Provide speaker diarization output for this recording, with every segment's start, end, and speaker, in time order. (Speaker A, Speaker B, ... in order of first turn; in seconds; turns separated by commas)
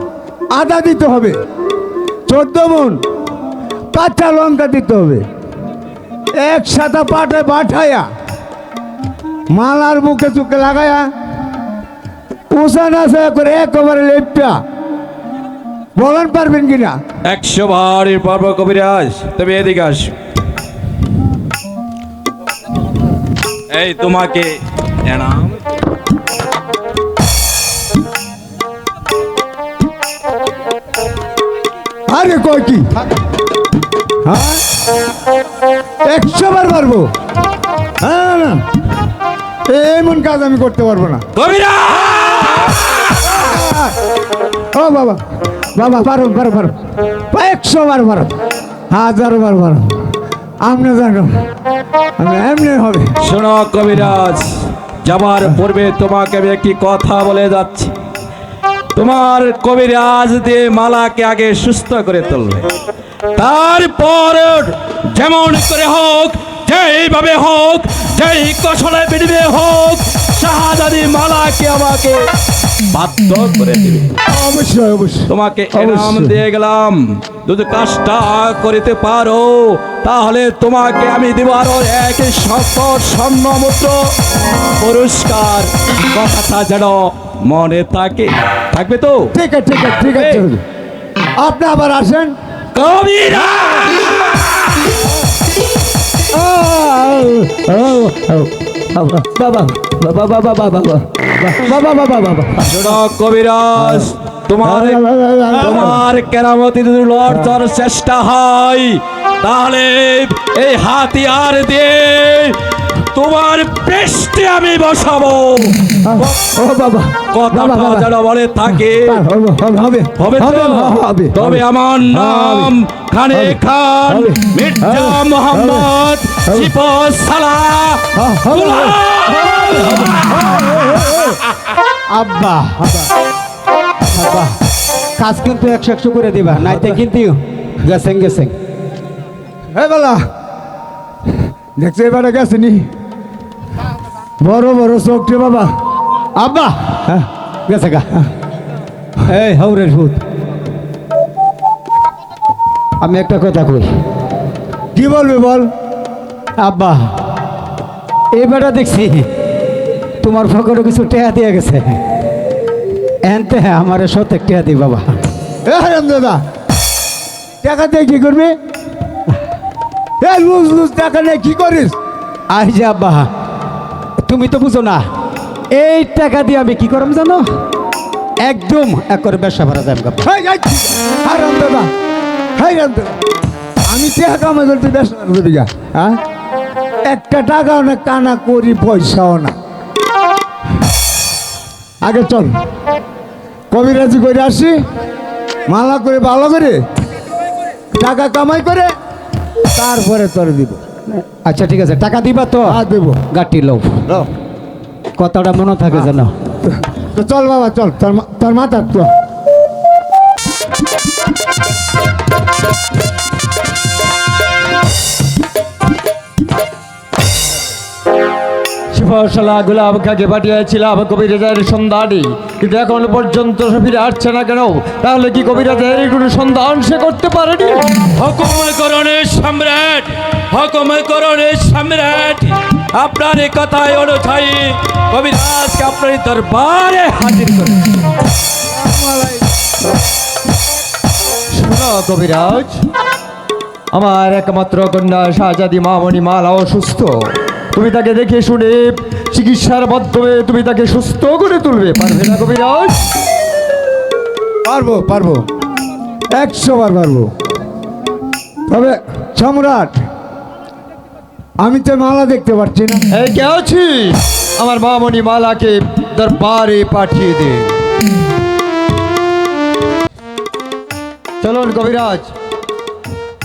Speaker A: 0.5-1.4, Speaker A: 2.3-3.0, Speaker A: 3.9-5.2, Speaker A: 6.4-8.1, Speaker A: 9.5-11.1, Speaker A: 12.5-14.6, Speaker A: 16.0-17.0, Speaker B: 17.2-20.1, Speaker B: 23.7-24.5, Speaker B: 25.0-25.6, Speaker A: 32.1-33.0, Speaker A: 34.2-34.6, Speaker A: 36.0-37.1, Speaker A: 38.0-38.6, Speaker A: 39.7-41.2, Speaker B: 41.4-43.4, Speaker A: 43.4-44.0, Speaker A: 44.7-45.2, Speaker A: 45.8-48.3, Speaker A: 48.9-49.9, Speaker A: 50.6-51.3, Speaker A: 52.2-53.1, Speaker B: 53.2-57.9, Speaker B: 59.0-62.7, Speaker B: 63.4-72.2, Speaker B: 72.9-74.1, Speaker A: 74.2-76.4, Speaker B: 75.3-84.1, Speaker B: 84.8-89.3, Speaker A: 89.3-90.6, Speaker B: 90.1-90.4, Speaker A: 91.4-92.3, Speaker B: 92.7-94.9, Speaker A: 96.3-102.8, Speaker B: 102.6-105.0, Speaker A: 103.8-104.1, Speaker A: 104.6-106.0, Speaker B: 105.5-112.6, Speaker B: 113.1-116.5, Speaker A: 116.0-118.1, Speaker B: 117.3-119.2, Speaker A: 119.0-122.7, Speaker B: 120.2-131.3, Speaker A: 123.3-125.9, Speaker A: 128.1-131.4, Speaker C: 132.1-132.8, Speaker C: 134.1-134.6, Speaker C: 135.2-138.5, Speaker A: 139.7-140.2, Speaker A: 141.8-142.9, Speaker A: 144.4-145.7, Speaker C: 146.4-147.0, Speaker C: 147.7-148.1, Speaker C: 149.2-150.2, Speaker C: 153.0-153.9, Speaker A: 154.9-155.7, Speaker C: 156.6-157.1, Speaker C: 158.3-159.3, Speaker C: 160.2-162.0, Speaker C: 163.2-165.2, Speaker A: 165.7-166.4, Speaker A: 167.6-168.6, Speaker A: 170.2-171.9, Speaker C: 172.5-173.3, Speaker C: 174.2-175.0, Speaker C: 175.7-177.5, Speaker C: 178.4-180.2, Speaker A: 180.2-181.9, Speaker A: 182.6-183.2, Speaker A: 183.9-186.2, Speaker A: 187.0-189.5, Speaker A: 192.0-192.5, Speaker A: 193.7-194.8, Speaker A: 195.7-196.8, Speaker A: 197.9-198.9, Speaker A: 199.7-200.8, Speaker C: 201.1-204.0, Speaker A: 202.6-203.2, Speaker C: 205.2-206.3, Speaker A: 206.6-209.1, Speaker D: 218.9-227.8, Speaker B: 228.2-238.0, Speaker A: 238.7-239.4, Speaker D: 241.5-242.8, Speaker D: 243.9-247.1, Speaker D: 247.7-253.0, Speaker A: 254.7-255.5, Speaker A: 256.3-257.3, Speaker A: 258.7-259.9, Speaker A: 261.6-263.0, Speaker D: 263.1-267.7, Speaker D: 271.4-272.3